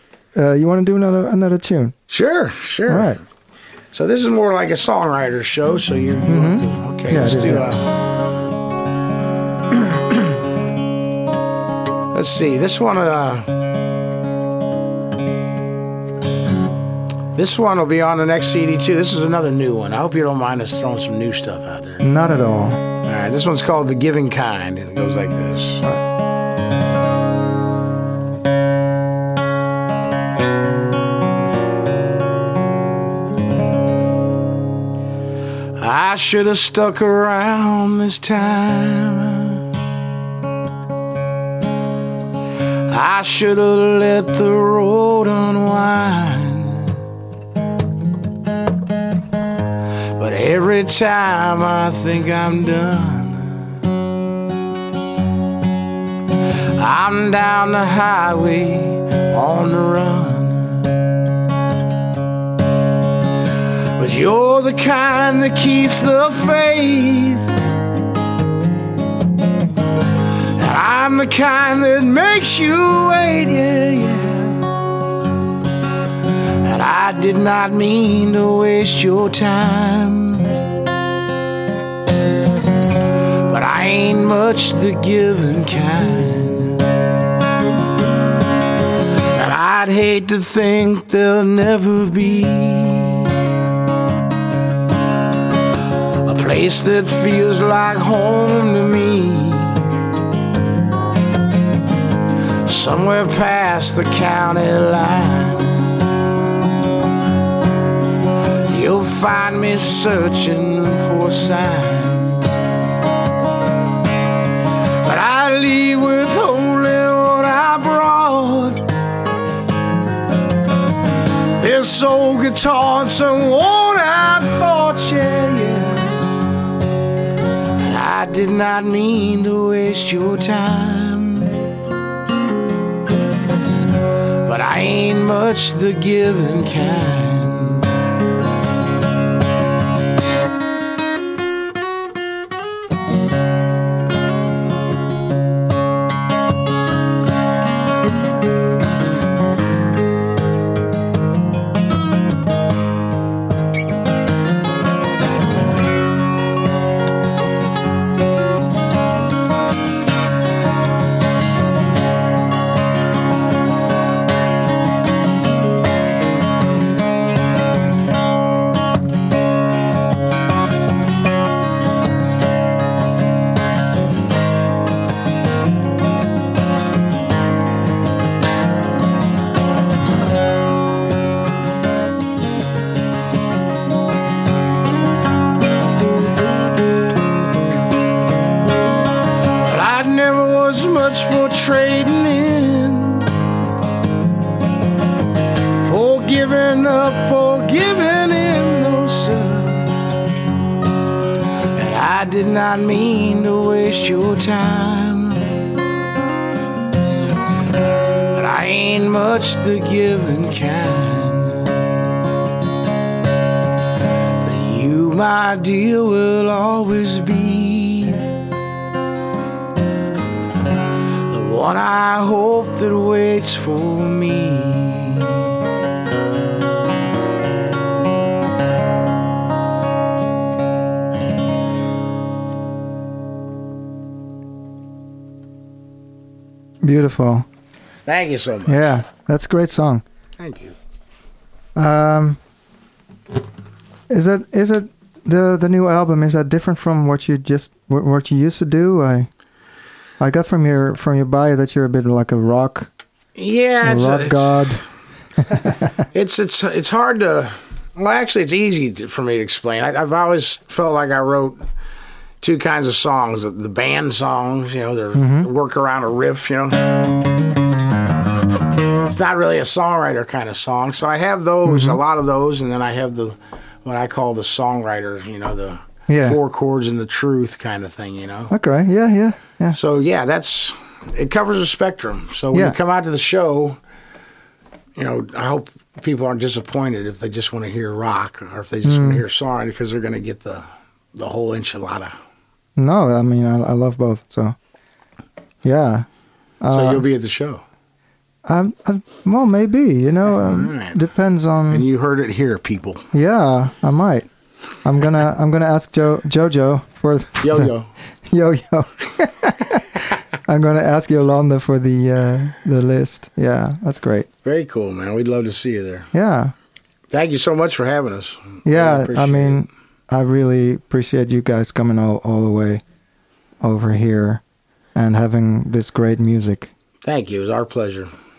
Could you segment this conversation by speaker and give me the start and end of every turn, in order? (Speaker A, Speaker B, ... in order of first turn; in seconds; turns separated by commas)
Speaker A: 0.3-1.9, Speaker B: 2.1-3.2, Speaker A: 2.9-3.2, Speaker B: 3.9-7.9, Speaker A: 6.3-7.7, Speaker B: 12.1-13.5, Speaker B: 17.4-22.1, Speaker A: 22.0-22.8, Speaker B: 23.0-25.9, Speaker B: 35.8-39.6, Speaker B: 42.9-47.0, Speaker B: 50.1-53.9, Speaker B: 56.8-60.9, Speaker B: 64.0-67.5, Speaker B: 70.5-74.7, Speaker B: 76.6-80.6, Speaker B: 83.4-86.8, Speaker B: 89.3-93.4, Speaker B: 96.2-100.0, Speaker B: 102.6-106.0, Speaker B: 108.7-112.6, Speaker B: 115.0-118.9, Speaker B: 121.6-126.2, Speaker B: 127.8-131.6, Speaker B: 134.4-137.9, Speaker B: 189.6-193.3, Speaker B: 195.8-199.9, Speaker B: 201.8-205.5, Speaker B: 208.3-211.8, Speaker B: 214.4-218.3, Speaker B: 221.3-225.5, Speaker A: 236.8-237.5, Speaker B: 238.1-239.0, Speaker A: 238.7-240.0, Speaker B: 240.4-240.8, Speaker A: 241.8-242.4, Speaker A: 244.1-249.3, Speaker A: 250.2-252.9, Speaker B: 253.4-254.8, Speaker A: 253.8-254.8, Speaker A: 255.4-255.9, Speaker B: 256.1-261.6, Speaker B: 262.4-266.8, Speaker A: 265.1-265.5, Speaker B: 269.0-278.5, Speaker A: 271.7-272.0, Speaker A: 276.1-276.4, Speaker A: 278.5-279.8, Speaker B: 279.7-283.8, Speaker B: 285.0-292.2, Speaker A: 288.8-289.2, Speaker A: 292.8-294.6, Speaker A: 295.6-296.1, Speaker A: 296.6-297.0, Speaker B: 296.7-297.6, Speaker A: 298.4-301.9, Speaker B: 300.3-301.0, Speaker B: 301.7-303.1, Speaker A: 303.1-304.3, Speaker A: 304.8-307.7, Speaker B: 307.4-307.9, Speaker A: 308.2-314.3, Speaker B: 314.4-316.1, Speaker A: 316.1-316.5, Speaker B: 317.1-319.6, Speaker A: 318.6-322.8, Speaker A: 323.6-324.4, Speaker A: 324.9-326.7, Speaker B: 327.0-328.1